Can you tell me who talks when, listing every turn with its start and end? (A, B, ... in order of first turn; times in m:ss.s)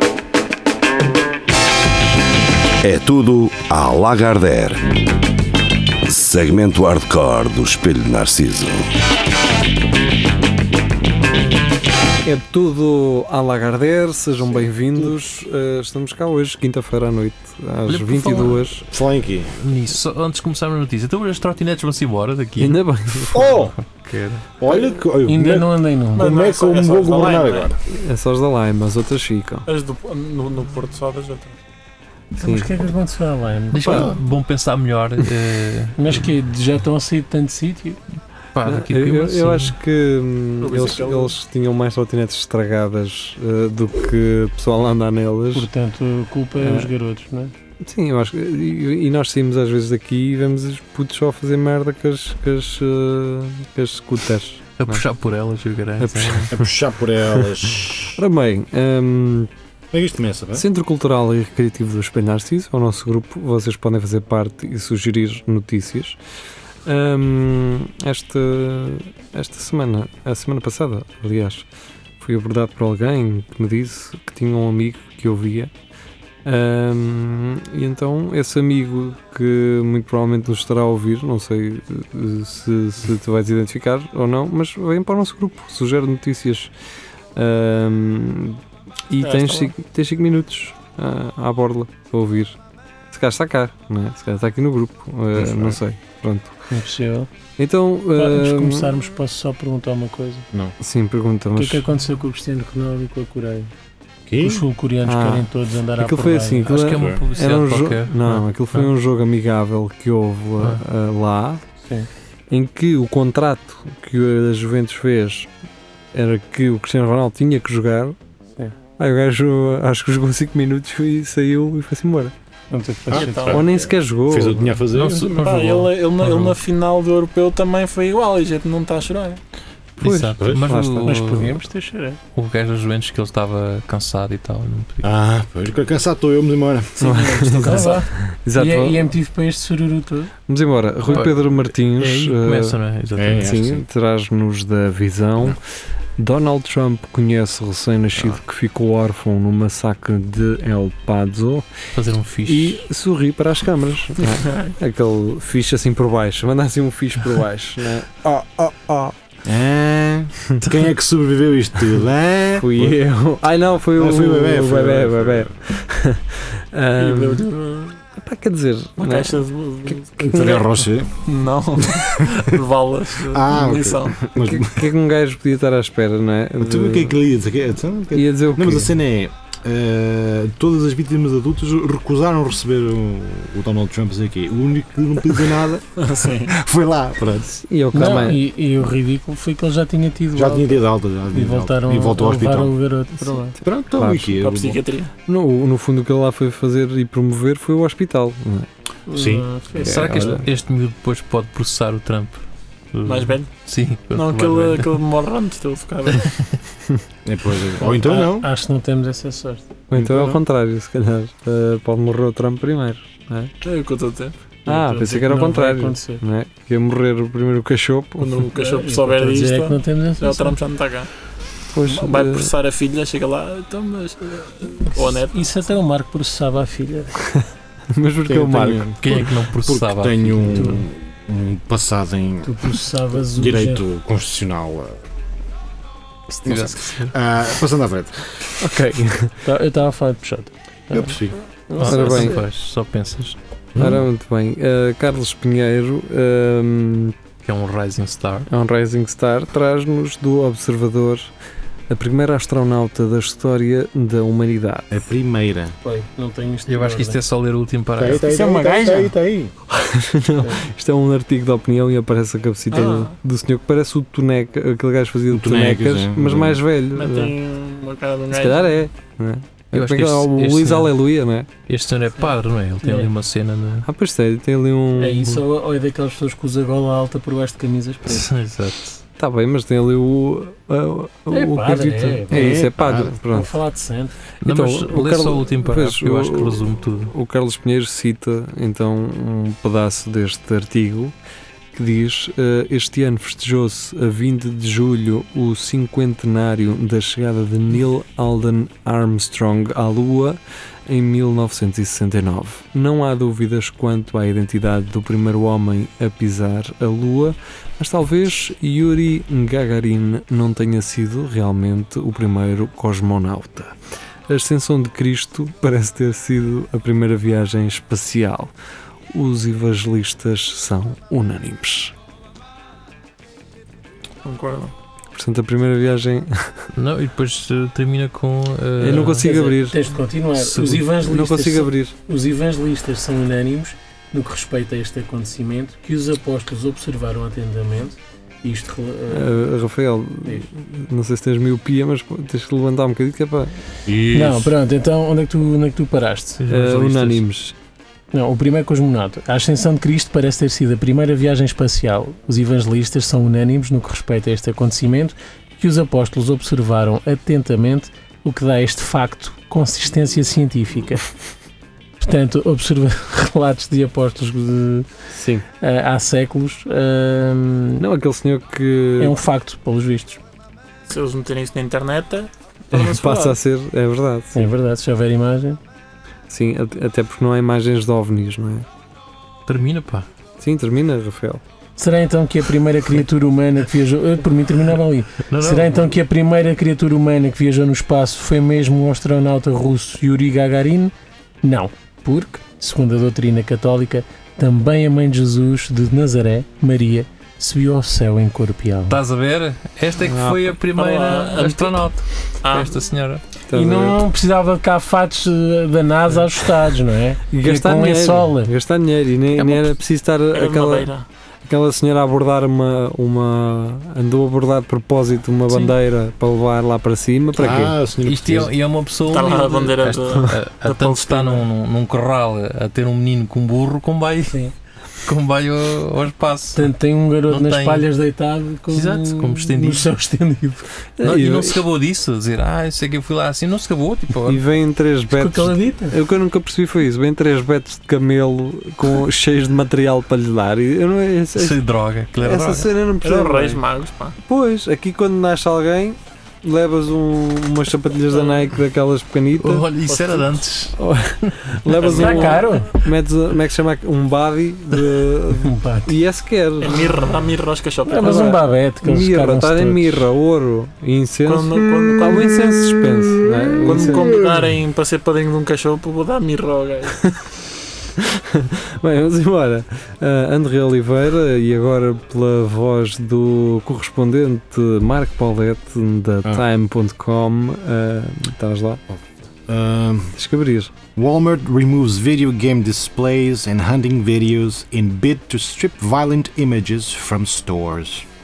0:02.8-0:04.9 A
0:06.0-0:08.9 A
0:12.2-0:18.8 B
0:14.5-0:15.2 C
0:17.9-0:18.8 D
0:18.9-0:19.5 C
0:19.5-0:23.7 D
0:22.6-0:24.4 B
0:23.3-0:23.7 C
0:24.6-0:27.8 C
0:25.3-0:26.4 E
0:26.2-0:27.7 F
0:27.9-0:29.7 B
0:29.7-0:31.6 F
0:32.4-0:34.1 E
0:32.4-0:32.7 B
0:33.7-0:36.2 D
0:33.8-0:34.1 B
0:36.0-0:38.0 E
0:38.6-0:39.8 D
0:38.6-0:45.7 B
0:40.6-0:41.3 F
0:45.5-0:47.5 E
0:46.6-0:46.9 B
0:47.8-0:55.0 B
0:54.8-0:56.5 D
0:56.0-0:56.6 B
0:56.5-0:58.2 C
0:58.2-0:59.5 B
0:59.9-1:00.6 C
1:00.5-1:06.2 B
1:06.9-1:11.7 B
1:12.2-1:15.7 B
1:16.4-1:26.7 B
1:27.4-1:32.6 B
1:29.2-1:29.7 F
1:33.1-1:36.5 B
1:35.3-1:35.8 C
1:36.7-1:37.3 E
1:37.6-1:38.9 B
1:38.2-1:40.5 E
1:40.8-1:41.8 B
1:41.6-1:43.7 E
1:44.3-1:44.6 C
1:44.4-1:46.9 E
1:45.0-1:51.6 B
1:46.7-1:48.9 D
1:47.0-1:47.2 C
1:52.5-1:55.5 B
1:56.1-1:58.2 B
1:59.0-2:02.3 B
2:02.7-2:03.6 E
2:03.1-2:05.4 C
2:03.1-2:03.6 F
2:03.5-2:04.8 B
2:04.9-2:06.6 D
2:05.3-2:09.4 F
2:10.0-2:11.2 B
2:10.0-2:11.6 D
2:10.4-2:10.7 C
2:11.0-2:12.2 E
2:12.4-2:15.1 D
2:15.0-2:18.0 C
2:17.0-2:19.0 B
2:17.1-2:20.3 E
2:20.5-2:22.8 B
2:21.1-2:23.5 D
2:23.2-2:23.8 C
2:23.4-2:25.6 B
2:26.2-2:31.7 B
2:32.0-2:32.8 D
2:32.5-2:39.1 B
2:34.2-2:34.7 F
2:39.4-2:43.0 C
2:42.6-2:47.5 B
2:44.0-2:45.5 C
2:47.0-2:48.0 F
2:48.2-2:50.7 B
2:49.0-2:50.7 F
2:50.2-2:51.1 C
2:51.3-2:54.2 F
2:51.8-2:52.5 C
2:53.3-2:54.9 C
2:54.4-2:57.2 B
2:56.6-3:05.9 C
2:58.2-2:59.0 B
3:06.0-3:06.6 F
3:06.5-3:07.6 C
3:07.7-3:08.4 B
3:07.9-3:13.6 E
3:10.4-3:12.7 C
3:13.6-3:14.8 C
3:14.0-3:14.3 B
3:14.4-3:15.1 F
3:15.3-3:18.7 B
3:19.1-3:20.4 E
3:19.1-3:19.5 C
3:19.8-3:22.4 D
3:19.8-3:20.5 B
3:22.9-3:24.9 D
3:23.1-3:23.6 F
3:24.1-3:26.4 F
3:26.2-3:26.6 D
3:27.2-3:28.5 C
3:27.9-3:29.7 E
3:29.9-3:33.5 B
3:29.9-3:30.4 C
3:33.6-3:34.4 F
3:34.7-3:36.2 E
3:34.7-3:38.4 B
3:38.2-3:41.1 F
3:38.5-3:40.6 E
3:41.7-3:42.5 B
3:41.9-3:45.4 F
3:45.0-3:47.4 E
3:47.9-3:48.9 B
3:48.3-3:52.8 C
3:49.0-3:50.9 D
3:52.4-3:53.8 E
3:53.3-3:55.0 C
3:56.4-3:58.3 C
3:56.5-3:57.1 D
3:58.6-3:59.3 B
3:59.4-4:01.2 E
4:00.9-4:01.4 C
4:01.7-4:02.4 E
4:01.8-4:03.8 D
4:01.8-4:02.4 B
4:03.8-4:04.0 C
4:03.8-4:07.2 B
4:07.4-4:08.5 D
4:08.5-4:11.3 B
4:11.9-4:15.0 B
4:14.9-4:15.8 C
4:15.8-4:17.2 E
4:16.7-4:18.2 D
4:18.0-4:19.5 C
4:18.1-4:19.1 F
4:19.7-4:27.4 B
4:22.7-4:23.1 F
4:25.3-4:26.6 C
4:27.0-4:28.8 F
4:28.3-4:31.5 B
4:29.7-4:30.9 D
4:31.7-4:33.9 D
4:32.8-4:33.1 E
4:33.9-4:35.4 B
4:35.0-4:38.3 E
4:38.1-4:39.0 D
4:39.2-4:43.5 B
4:41.3-4:44.1 E
4:42.3-4:43.1 C
4:44.4-4:47.1 D
4:44.5-4:51.1 B
4:51.7-5:13.7 B
5:14.3-5:18.5 B
5:19.1-5:21.9 B
5:24.2-5:24.7 F
5:25.2-5:26.7 B
5:26.7-5:29.3 D
5:28.8-5:29.8 B
5:28.8-5:39.4 E
5:30.4-5:30.9 D
5:31.0-5:31.9 B
5:39.1-5:43.5 B
5:43.9-5:44.5 C
5:44.1-5:46.4 E
5:46.4-5:47.2 D
5:46.5-5:47.5 B
5:48.1-6:01.1 E
6:02.0-6:04.9 E
6:05.1-6:05.4 B
6:05.6-6:07.8 E
6:07.8-6:09.2 B
6:09.0-6:10.2 E
6:10.9-6:13.4 F
6:12.7-6:14.5 B
6:14.4-6:15.6 E
6:16.3-6:18.7 B
6:19.5-6:20.1 D
6:20.4-6:21.4 B
6:21.8-6:39.0 E
6:25.3-6:25.9 D
6:38.9-6:43.2 D
6:40.0-6:40.6 B
6:40.7-6:41.9 F
6:42.4-6:42.8 F
6:43.5-6:44.0 B
6:43.5-6:48.5 E
6:47.3-6:50.9 B
6:49.4-6:49.7 D
6:50.3-6:51.0 F
6:51.4-6:57.8 B
6:57.3-6:58.5 C
6:58.0-7:04.4 D
6:59.1-7:01.5 F
7:05.0-7:06.7 D
7:06.6-7:10.7 E
7:07.3-7:07.9 D
7:08.7-7:09.9 D
7:11.0-7:11.6 B
7:11.0-7:14.4 D
7:14.3-7:21.6 B
7:15.1-7:16.0 E
7:21.4-7:22.8 D
7:22.2-7:23.6 B
7:23.0-7:24.2 F
7:24.3-7:29.7 B
7:29.4-7:31.4 D
7:29.8-7:30.4 F
7:30.8-7:37.0 B
7:31.7-7:32.5 F
7:31.9-7:32.8 E
7:35.4-7:35.9 E
7:36.6-7:38.4 F
7:37.9-7:40.1 E
7:38.8-7:44.3 B
7:41.3-7:42.4 F
7:43.6-7:47.2 F
7:48.0-7:58.8 B
7:59.5-8:00.2 C
8:00.2-8:00.7 B
8:01.0-8:08.1 C